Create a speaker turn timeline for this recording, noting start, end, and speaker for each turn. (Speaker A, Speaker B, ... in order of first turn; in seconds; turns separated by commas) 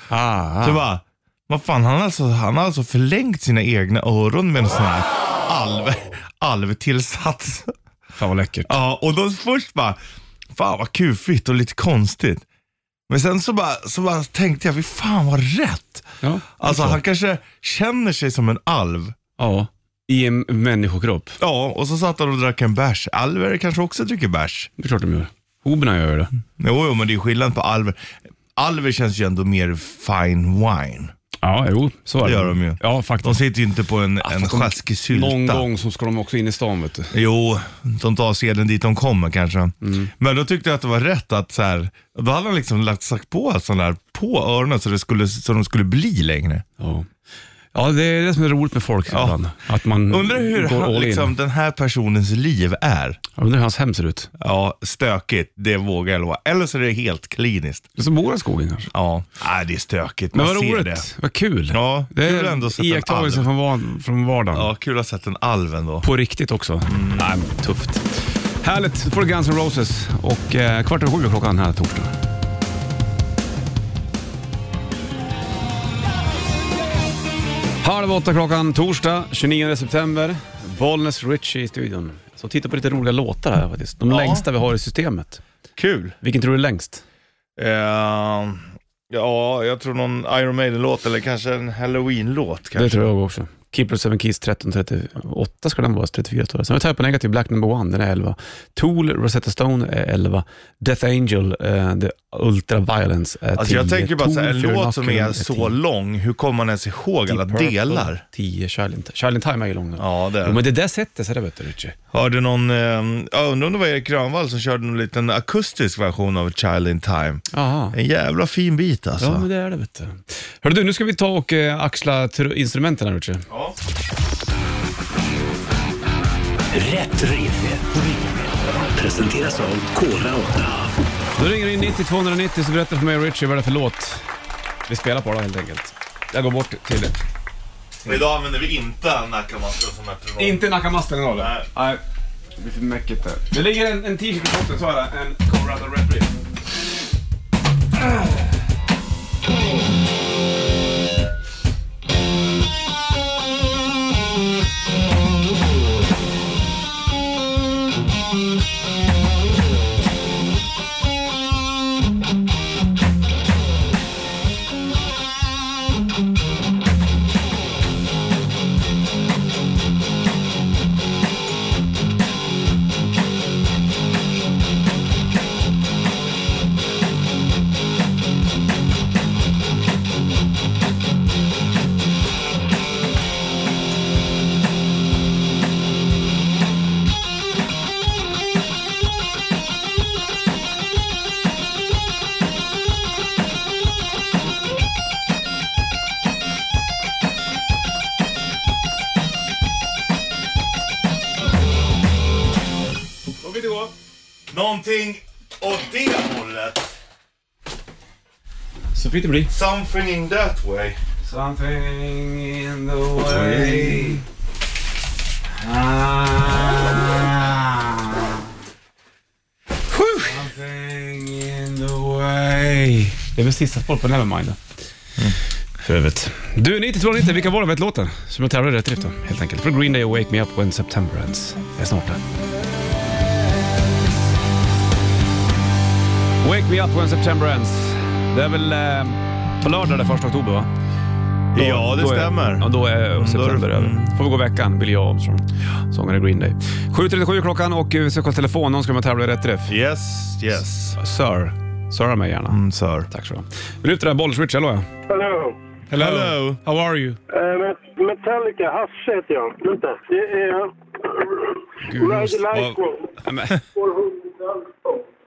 Speaker A: 0.1-0.8, Speaker B: 0.6-7.8, Speaker A: 8.2-8.8, Speaker B: 8.7-10.0, Speaker B: 10.5-12.4, Speaker B: 13.1-16.1, Speaker A: 16.2-17.0, Speaker B: 16.6-19.2, Speaker A: 19.4-21.4, Speaker B: 21.4-24.7, Speaker A: 24.8-26.3, Speaker B: 26.6-28.0, Speaker B: 28.6-31.1, Speaker A: 31.4-33.4, Speaker B: 32.2-35.7, Speaker A: 34.2-37.1, Speaker B: 37.1-46.6, Speaker A: 39.8-40.1, Speaker A: 46.8-47.1, Speaker A: 47.7-51.3, Speaker B: 49.1-49.4, Speaker B: 50.1-53.2, Speaker A: 53.4-54.3, Speaker B: 54.4-57.9, Speaker A: 58.0-58.9, Speaker B: 58.9-61.1, Speaker A: 60.3-64.7, Speaker B: 61.7-63.5, Speaker B: 64.5-66.1, Speaker A: 66.0-72.1, Speaker B: 66.9-67.3, Speaker A: 77.8-85.4, Speaker B: 84.1-84.4, Speaker B: 85.8-86.2, Speaker A: 86.2-87.0, Speaker B: 87.6-93.0, Speaker A: 92.8-105.8, Speaker B: 103.6-108.2, Speaker A: 107.3-112.0, Speaker B: 110.0-110.6, Speaker B: 112.1-119.5, Speaker A: 117.5-118.0, Speaker A: 119.2-123.5, Speaker C: 126.7-130.9, Speaker A: 131.4-134.3, Speaker A: 134.9-137.2, Speaker B: 138.1-140.7, Speaker A: 140.4-142.0, Speaker B: 141.4-141.7, Speaker A: 142.6-146.4, Speaker A: 203.4-203.9, Speaker B: 204.5-206.9, Speaker A: 208.9-209.5, Speaker B: 209.5-211.0, Speaker A: 211.2-214.2, Speaker B: 213.2-214.2, Speaker A: 215.6-218.4, Speaker B: 219.9-220.3, Speaker A: 220.2-224.6, Speaker A: 225.8-232.2, Speaker A: 236.4-240.7, Speaker B: 241.5-244.2, Speaker A: 241.6-249.8, Speaker B: 249.7-251.0, Speaker A: 251.0-254.9, Speaker B: 252.5-253.1, Speaker D: 255.1-255.6, Speaker A: 255.9-257.2, Speaker B: 255.9-256.6, Speaker D: 257.3-265.0, Speaker A: 261.8-262.4, Speaker B: 262.5-262.8, Speaker A: 263.2-263.6